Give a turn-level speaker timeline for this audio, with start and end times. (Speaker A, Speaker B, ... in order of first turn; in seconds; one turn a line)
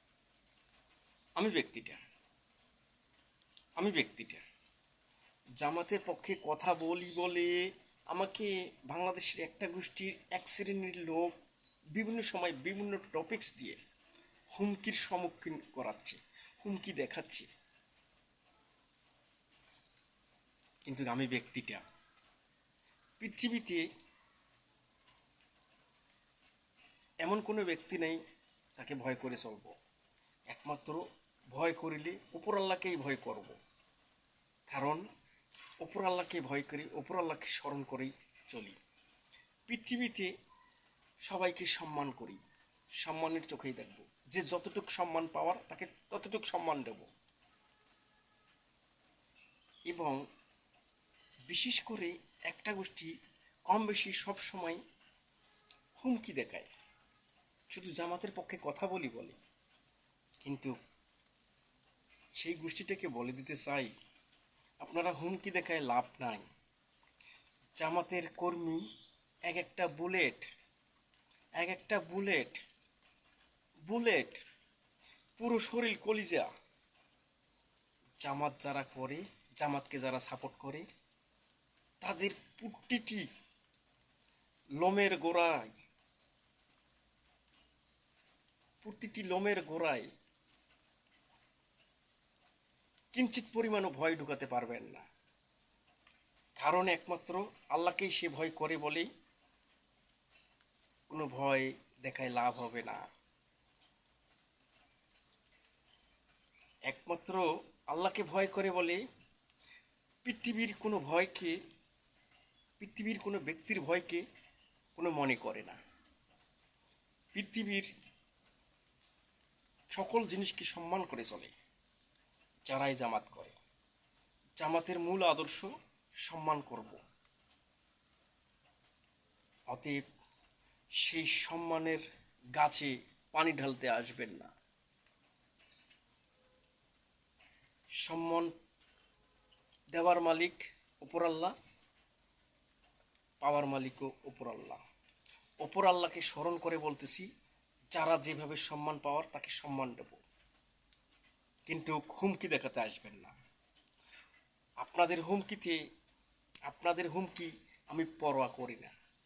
Speaker A: 1.4-2.0
Speaker A: 3.8-4.4
Speaker A: 5.6-11.4
Speaker A: 12.0-13.8
Speaker A: 14.5-17.5
Speaker A: 20.9-21.8
Speaker A: 23.2-23.9
Speaker A: 27.2-28.2
Speaker A: 28.8-29.7
Speaker A: 30.5-33.6
Speaker A: 34.7-35.0
Speaker A: 35.8-38.8
Speaker A: 39.7-40.3
Speaker A: 41.2-42.4
Speaker A: 43.0-47.1
Speaker A: 49.9-50.2
Speaker A: 51.5-53.1
Speaker A: 53.7-54.8
Speaker A: 56.0-56.7
Speaker A: 57.7-59.4
Speaker A: 60.4-60.8
Speaker A: 62.4-63.9
Speaker A: 64.8-66.5
Speaker A: 67.8-68.8
Speaker A: 69.5-70.5
Speaker A: 71.6-72.6
Speaker A: 73.9-74.4
Speaker A: 75.4-76.5
Speaker A: 78.2-80.8
Speaker A: 82.0-83.3
Speaker A: 84.8-85.7
Speaker A: 88.8-90.1
Speaker A: 93.1-95.1
Speaker A: 96.6-99.1
Speaker A: 101.1-103.0
Speaker A: 106.9-109.0
Speaker A: 110.2-111.6
Speaker A: 112.8-114.2
Speaker A: 115.0-115.8
Speaker A: 117.3-117.9
Speaker A: 120.0-121.5
Speaker A: 122.7-123.6
Speaker A: 124.6-125.7
Speaker A: 126.3-127.0
Speaker A: 129.7-130.0
Speaker A: 131.0-132.0
Speaker A: 132.6-134.5
Speaker A: 138.0-138.5
Speaker A: 139.9-141.5
Speaker A: 143.4-144.8
Speaker A: 145.6-147.3
Speaker A: 147.9-150.2
Speaker A: 151.7-153.3
Speaker A: 154.8-155.8
Speaker A: 156.7-158.9